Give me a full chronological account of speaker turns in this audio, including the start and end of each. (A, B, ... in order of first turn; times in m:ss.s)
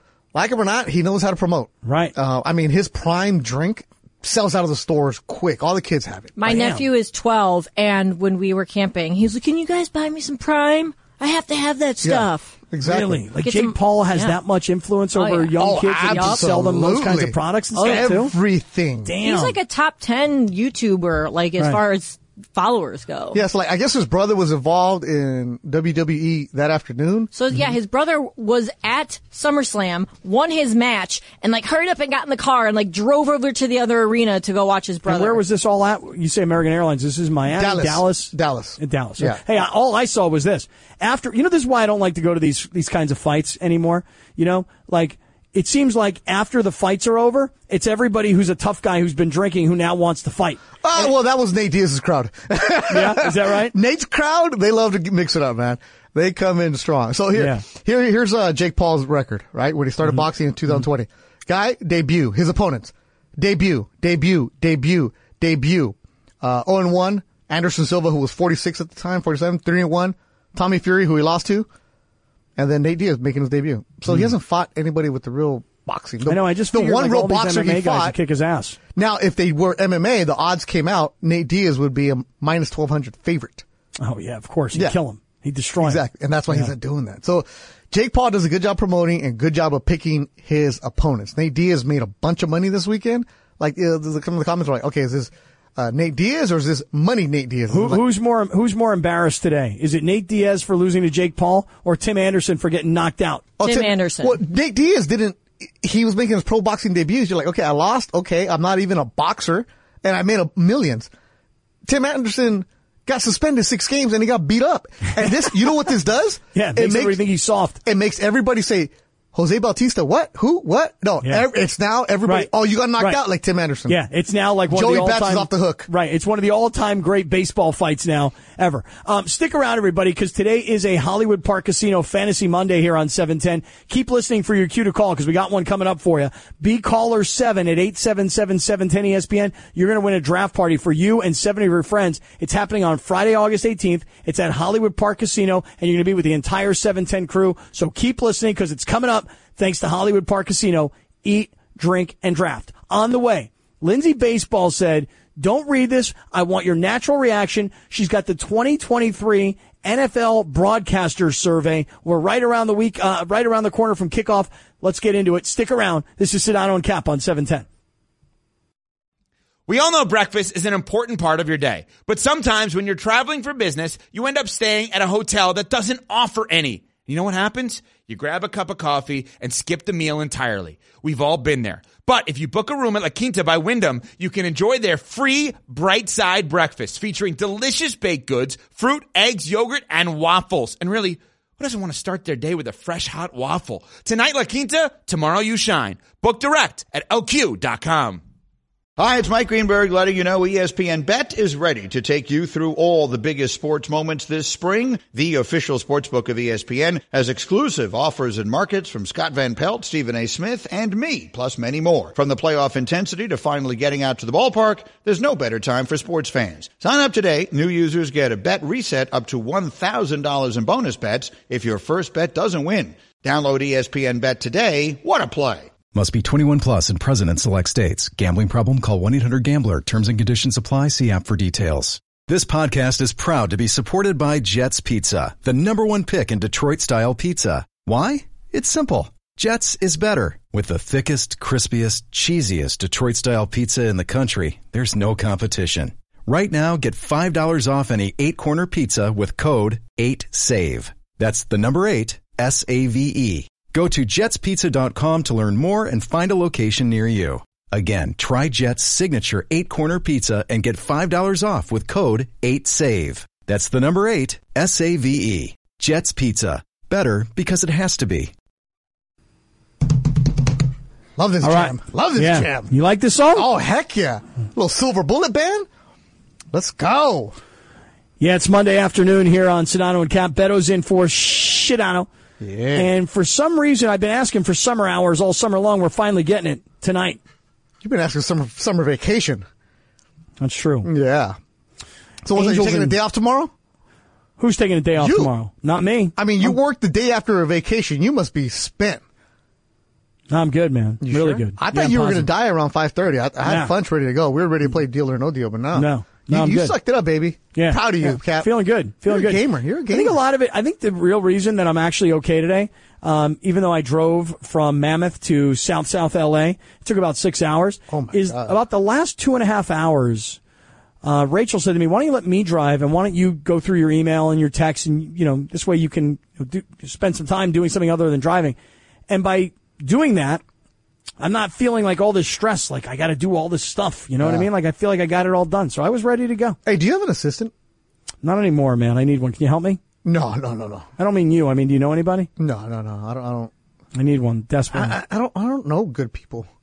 0:00.3-0:06.6 A
0:01.8-0:02.1 B
0:06.4-0:12.6 C
0:06.5-0:06.8 B
0:12.0-0:13.2 A
0:12.8-0:18.3 B
0:13.4-0:14.4 C
0:15.1-0:16.4 C
0:15.6-0:19.1 A
0:17.8-0:18.3 C
0:19.0-0:19.6 B
0:19.2-0:23.4 C
0:23.3-0:27.3 A
0:27.3-0:35.4 C
0:35.1-0:50.6 B
0:37.5-0:39.4 A
0:50.8-1:11.7 A
0:52.9-0:53.7 B
0:57.4-0:57.6 B
1:12.6-1:18.2 A
1:16.3-1:18.8 B
1:19.0-1:23.6 A
1:24.0-1:26.7 B
1:25.8-1:38.0 A
1:37.7-1:43.5 B
1:43.6-1:51.1 A
1:43.6-1:44.4 C
1:51.9-1:57.2 A
1:56.6-1:57.8 B
1:57.8-2:04.0 A
2:02.3-2:03.2 B
2:03.9-2:47.7 B
2:04.7-2:05.9 A
2:49.7-3:18.2 D
3:19.0-3:45.7 E
3:45.9-4:28.3 F
4:31.2-4:32.7 A
4:31.4-4:33.5 B
4:33.3-4:35.7 A
4:36.5-4:37.4 A
4:38.2-4:42.1 B
4:42.4-4:42.9 A
4:42.8-4:47.2 B
4:47.8-4:49.4 A
4:50.4-4:50.9 B
4:50.8-4:51.4 A
4:52.2-4:53.5 A
4:52.3-4:53.0 B
4:54.4-4:56.5 B
4:55.0-4:55.3 A
4:56.2-4:59.0 A
5:00.3-5:02.3 B
5:01.0-5:08.5 A
5:03.4-5:03.7 B
5:05.7-5:06.8 B
5:07.5-5:20.4 B
5:09.1-5:10.2 A
5:17.9-5:18.6 A
5:21.0-5:28.6 B
5:29.1-5:30.4 B
5:31.2-5:36.6 B
5:34.2-5:34.5 A
5:36.6-5:37.5 A
5:38.2-5:39.8 B
5:40.0-5:40.9 A
5:41.0-5:42.3 B
5:42.4-5:43.5 A
5:44.0-5:45.0 B
5:44.7-5:46.5 A